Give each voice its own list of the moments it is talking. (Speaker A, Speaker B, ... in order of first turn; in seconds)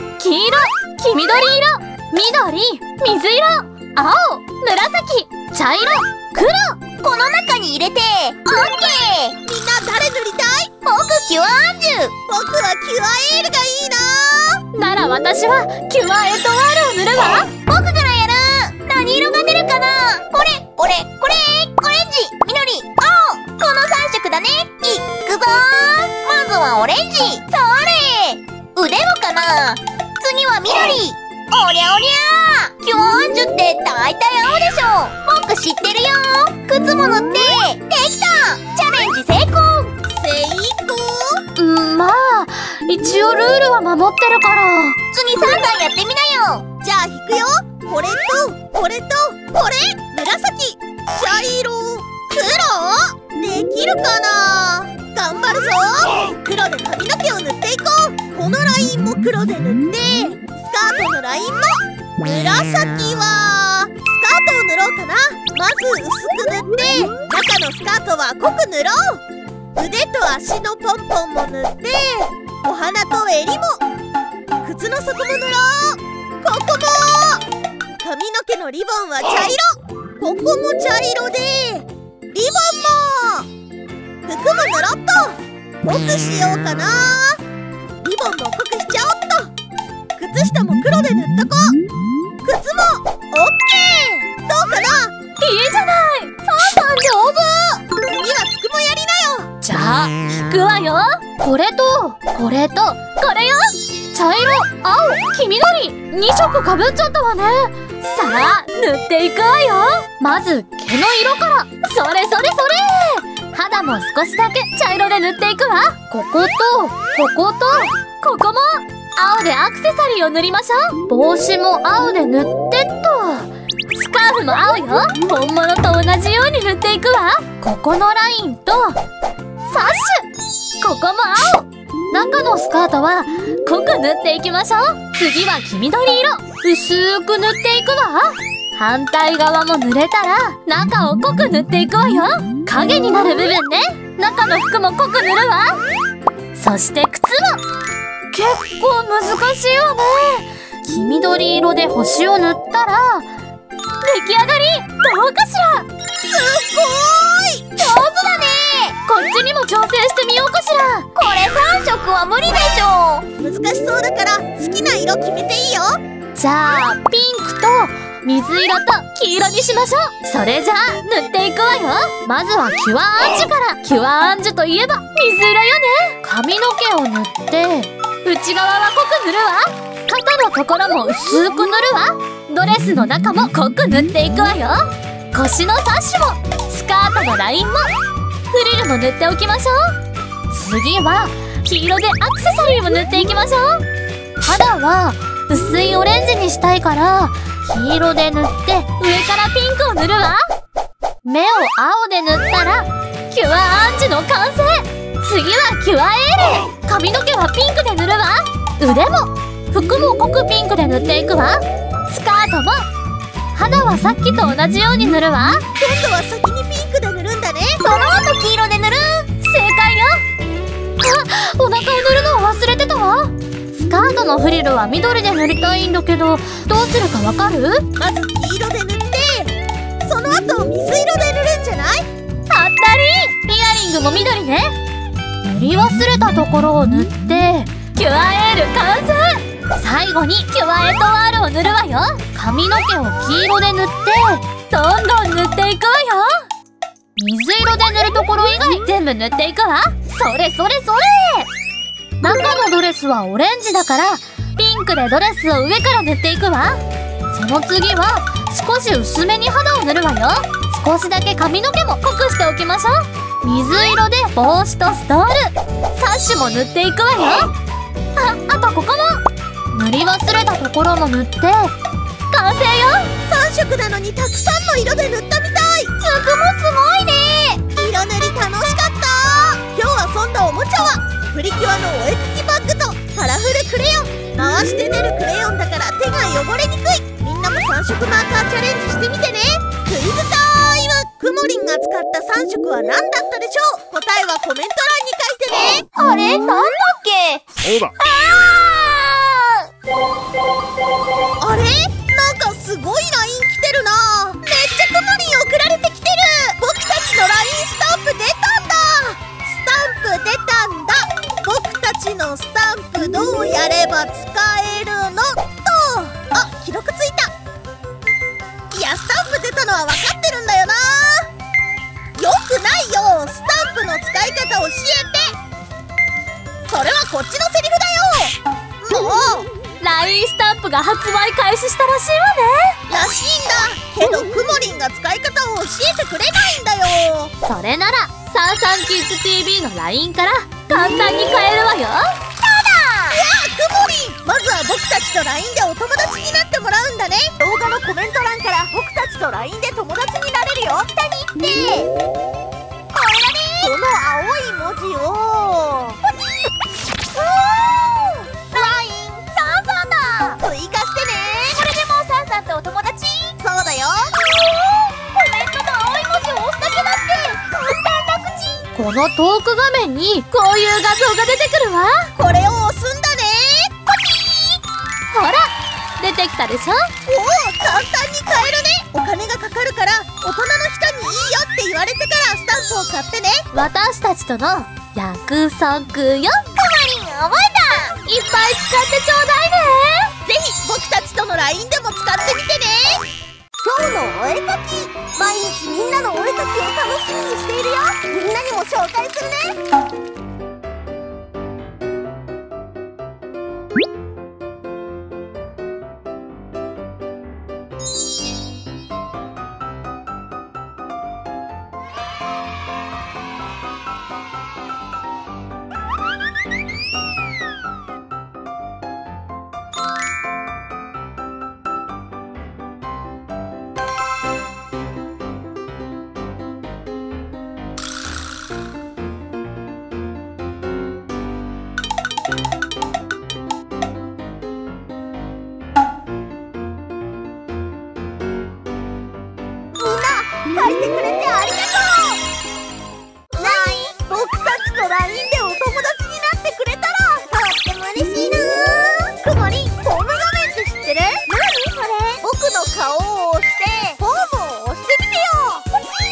Speaker A: 0.2-6.8, 14.7-17.5, 41.6-45.0, 95.4-97.8, 99.6-129.0, 129.7-130.3, 130.8-145.8, 146.5-147.6, 148.3-153.3, 154.0-155.9, 159.1-161.1, 166.3-187.9, 188.5-190.0, 190.5-193.8, 194.4-200.5, 201.2-212.9, 213.5-215.7, 219.4-220.2, 221.0-227.8, 232.5-234.8, 235.4-246.5, 247.2-251.5, 252.2-267.5, 268.1-271.7, 272.3-273.1, 329.8-332.8, 337.4-342.2, 368.7-372.1, 375.1-376.9, 383.5-386.4, 388.1-390.1
Speaker B: 7.0-9.4, 10.8-12.1, 17.7-40.0, 45.1-46.6, 157.8-159.0, 161.2-163.3, 217.8-219.3, 276.0-277.6, 295.9-299.7, 342.4-343.2, 350.9-351.9, 352.9-353.8, 357.1-360.4, 361.5-363.4, 364.3-368.7, 386.5-388.0, 443.3-444.0, 448.0-449.0, 451.5-452.2, 452.7-453.9
Speaker C: 9.4-10.7, 12.3-14.6, 40.1-41.4, 46.8-69.2, 69.8-73.8, 74.6-77.5, 78.0-83.5, 84.2-87.4, 88.0-89.5, 90.2-91.8, 92.4-95.1, 98.0-99.5, 156.2-157.7, 163.4-166.0, 215.8-217.8, 228.0-232.1, 273.2-275.9, 277.7-295.9, 301.4-317.3, 318.7-321.3, 322.2-325.4, 326.7-329.5, 332.9-337.3, 343.1-350.9, 353.6-356.0, 360.4-361.6, 363.4-364.2, 372.2-373.7, 377.1-383.5, 390.2-393.1, 393.6-399.6, 439.8-442.2, 443.3-451.6, 452.1-455.7